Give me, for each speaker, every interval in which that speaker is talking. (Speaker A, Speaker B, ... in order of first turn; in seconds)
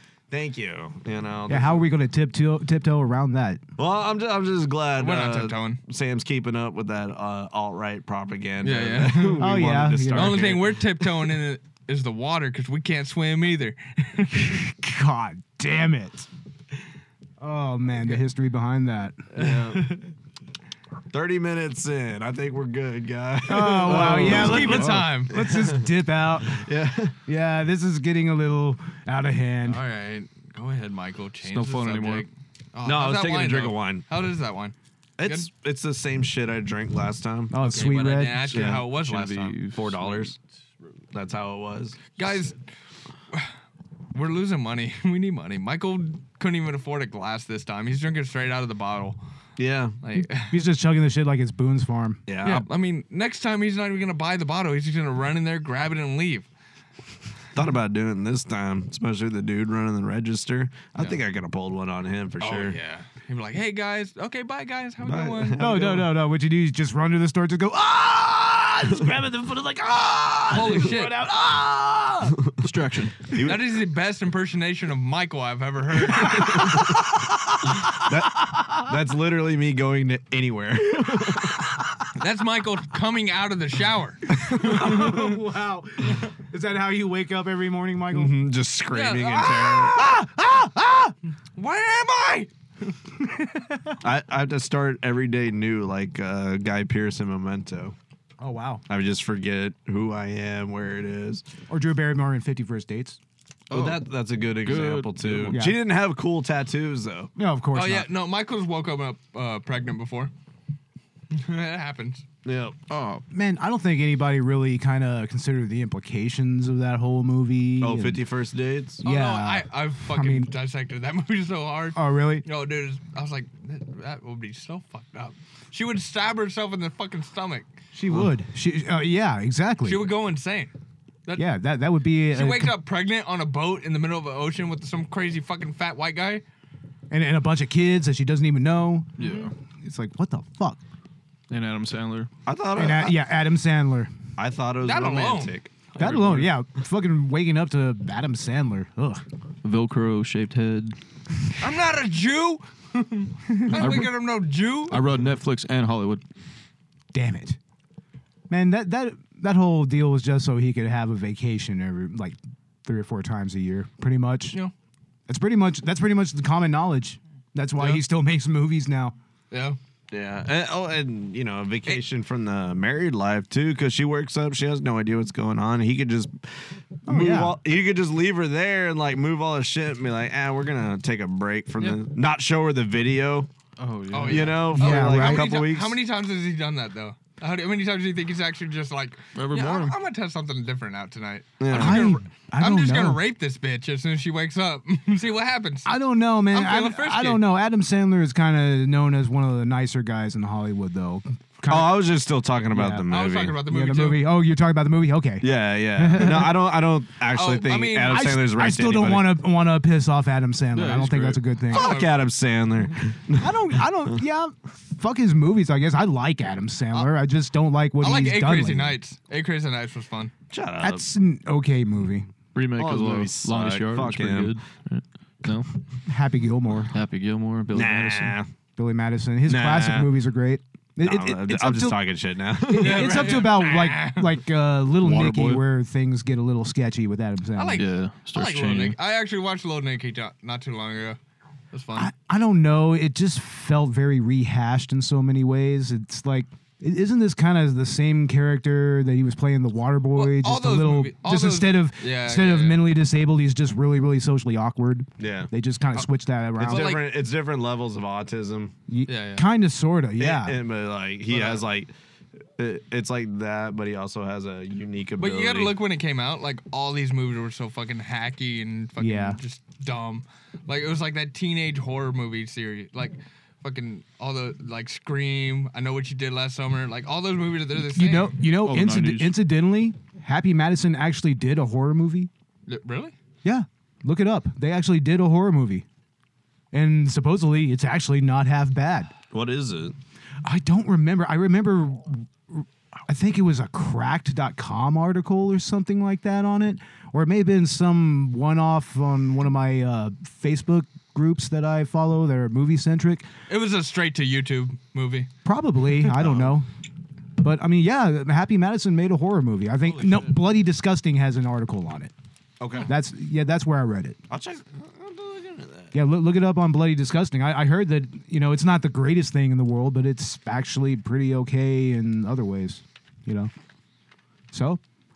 Speaker A: 0.3-1.9, 3.8-11.2, 19.3-19.9, 21.1-27.1, 32.8-34.0, 35.2-37.5, 38.5-38.9, 39.7-40.3, 41.1-42.0, 49.6-50.0, 52.3-52.7, 57.5-62.8, 65.0-66.1, 73.3-73.7, 76.6-76.9, 77.9-81.6, 84.3-84.8, 88.1-90.0, 94.0-97.9, 98.9-101.4, 103.7-107.3, 112.4-112.8, 117.8-119.0, 142.4-143.2, 144.4-145.7, 170.1-183.5, 184.2-186.0, 191.6-192.2, 201.7-203.6, 205.4-209.3, 211.7-213.6, 220.5-221.1, 222.8-224.6, 227.7-228.5, 229.5-230.1, 231.0-233.4, 255.2-255.5, 256.6-258.7, 260.2-261.9, 262.6-265.7, 289.3-289.9, 306.1-306.6, 309.8-310.4, 312.6-312.9, 314.3-315.9
Speaker B: 1.5-3.6, 9.4-10.6, 14.3-16.3, 17.4-19.3, 23.4-26.6, 27.2-29.8, 37.5-38.6, 50.3-52.2, 65.6-72.4, 76.2-78.9, 84.4-88.3, 89.8-91.1, 93.5-93.9, 98.4-98.8, 101.7-103.2, 105.5-105.8, 107.3-108.1, 113.3-118.2, 119.0-120.5, 121.9-122.4, 127.9-130.1, 131.3-132.8, 137.1-139.1, 139.8-140.8, 142.7-144.1, 146.0-149.2, 157.1-157.6, 158.5-164.6, 165.3-169.1, 177.1-177.6, 184.7-185.6, 191.7-193.2, 195.8-202.1, 202.7-203.1, 203.6-206.7, 208.0-212.0, 213.4-219.0, 220.8-222.3, 226.1-226.9, 228.8-232.0, 232.7-237.8, 241.9-257.0, 258.9-260.6, 269.0-269.4, 277.8-282.3, 283.4-285.8, 286.7-289.1, 290.4-303.2, 305.4-306.7, 307.4-312.1, 312.8-314.2, 315.9-323.5, 324.5-324.8
Speaker C: 5.0-5.8, 8.6-9.6, 10.1-14.6, 19.3-20.1, 24.1-25.4, 29.6-35.5, 37.6-39.6, 42.1-42.6, 44.1-49.2, 50.0-50.6, 52.4-56.5, 62.4-65.8, 70.5-71.2, 73.4-76.8, 82.1-85.2, 88.9-89.8, 91.5-92.5, 107.7-110.3, 111.3-112.2, 119.0-127.7, 129.8-130.7, 132.3-136.4, 139.2-139.5, 144.8-145.6, 151.6-155.0, 167.8-168.0, 169.5-169.8, 184.1-195.9, 196.5-197.4, 203.1-204.3, 207.3-208.3, 211.7-212.2, 218.0-220.3, 232.7-234.4, 237.6-241.2, 241.7-242.1, 250.1-252.9, 256.6-257.1, 259.1-259.4, 261.3-261.6, 265.2-278.4, 282.7-283.1, 303.5-305.3
Speaker D: 23.8-25.1, 31.4-32.3, 38.9-40.4, 72.6-73.3, 103.7-104.0, 104.6-105.7, 112.9-113.2, 139.2-139.5, 141.5-142.3, 146.0-146.6, 149.6-151.0, 153.7-154.1, 154.9-156.2, 183.8-184.7, 189.3-189.9, 210.7-211.4, 222.5-225.8, 226.9-228.4, 235.0-235.6, 237.8-239.0, 278.5-279.4